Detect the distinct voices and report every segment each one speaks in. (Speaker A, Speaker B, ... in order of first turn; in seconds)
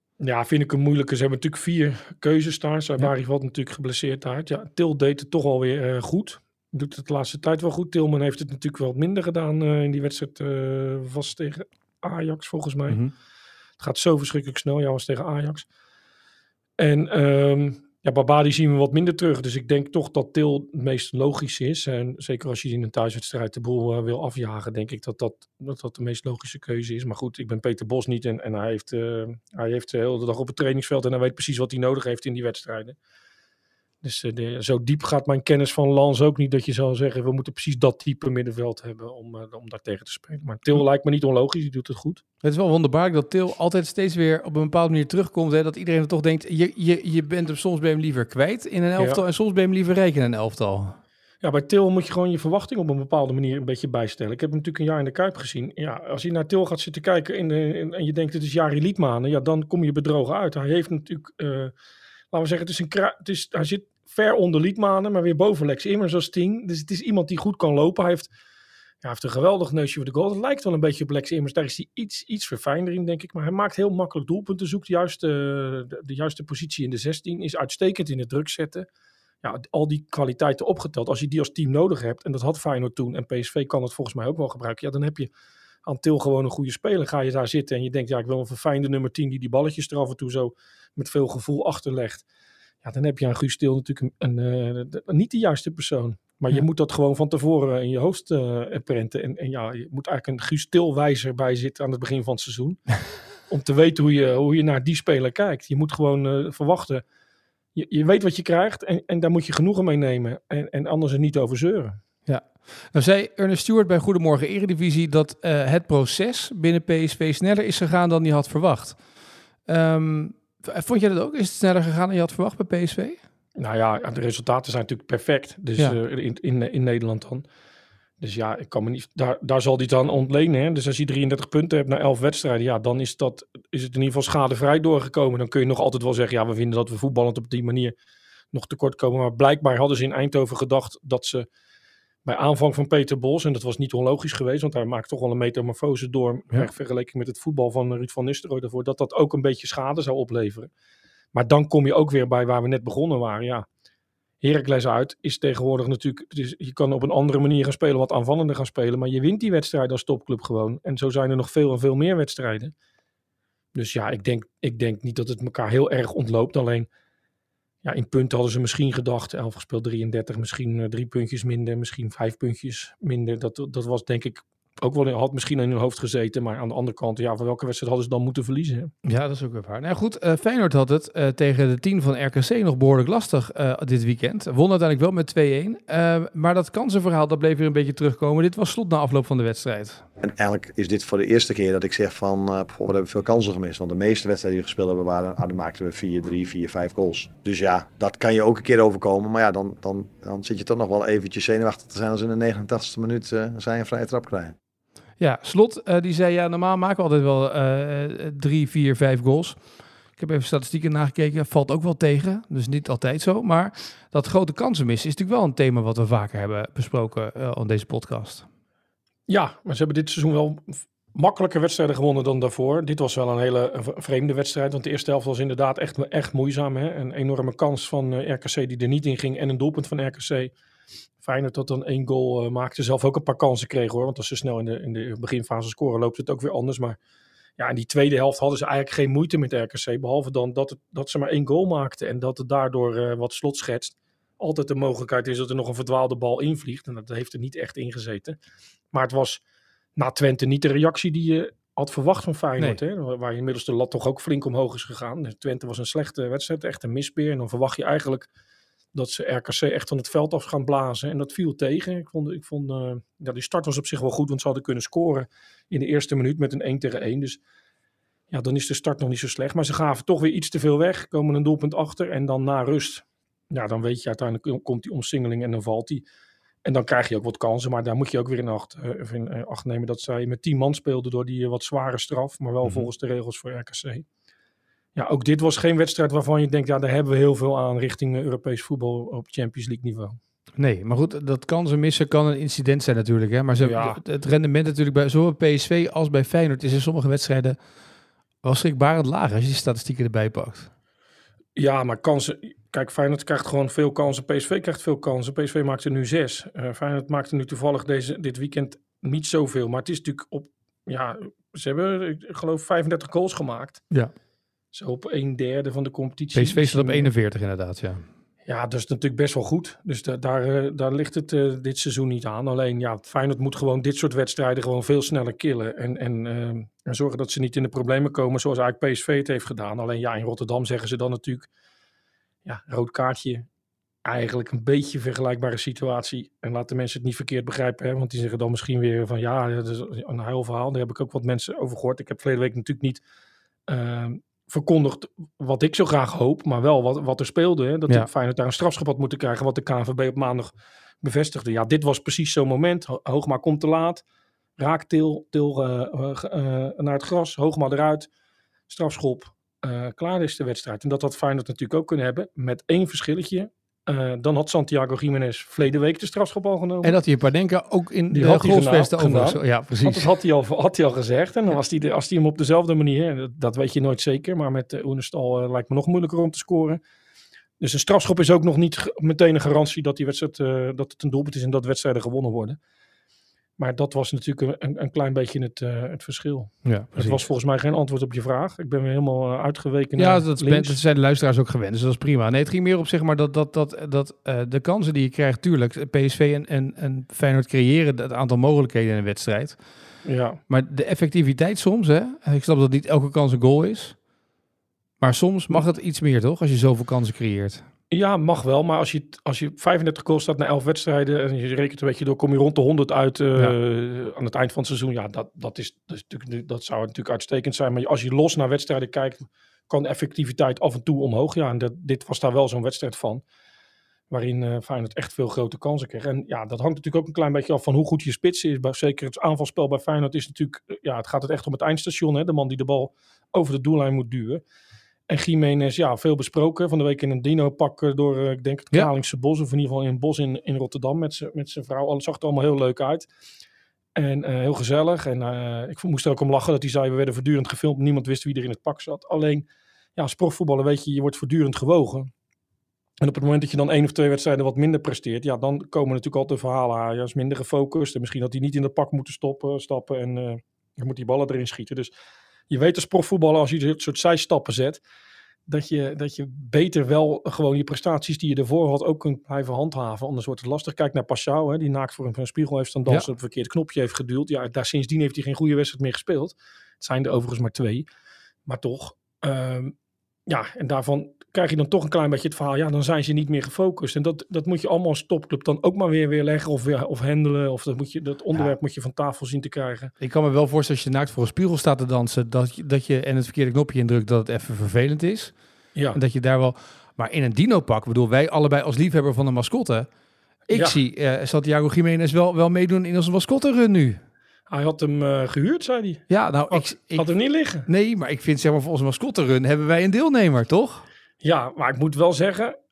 Speaker A: 0.2-13.0, 13.8-15.7, 16.8-33.0, 34.0-42.2, 51.4-61.7, 62.3-68.3, 69.0-78.9, 79.4-85.3, 85.8-92.2, 92.8-107.0, 107.7-112.0, 123.6-127.4, 128.2-137.9, 138.5-141.4, 142.2-150.7, 151.3-153.7, 154.4-162.7, 163.7-166.9, 167.8-178.9, 219.3-230.5, 231.2-237.0, 237.6-248.4, 248.9-249.4, 250.0-258.3, 258.9-267.4, 268.3-276.0, 276.6-284.0, 284.9-290.2, 293.6-294.0, 301.6-313.8, 314.7-317.1, 318.4-331.5, 332.4-333.4, 334.0-343.0, 343.7-354.0, 354.6-358.1, 358.7-366.9, 368.1-376.8, 377.6-382.6, 383.6-390.8, 400.0-400.4, 407.9-423.2, 424.1-434.4, 435.1-443.1, 443.9-452.1, 453.0-461.9, 462.5-464.8, 465.5-477.9, 478.4-479.7, 480.3-489.9, 500.5-500.8, 504.5-507.7, 511.2-512.5
Speaker B: 42.4-51.0, 112.2-119.0, 119.7-123.2, 179.0-190.0, 205.2-209.6, 210.2-218.4, 282.6-282.9, 290.6-297.6, 298.4-300.7, 316.3-318.0, 366.8-370.1, 386.6-387.2, 390.0-399.6, 400.5-404.0, 405.0-407.6, 490.0-495.3, 495.9-499.9, 500.5-504.0, 506.1-507.1, 507.6-510.8
Speaker C: 190.2-204.5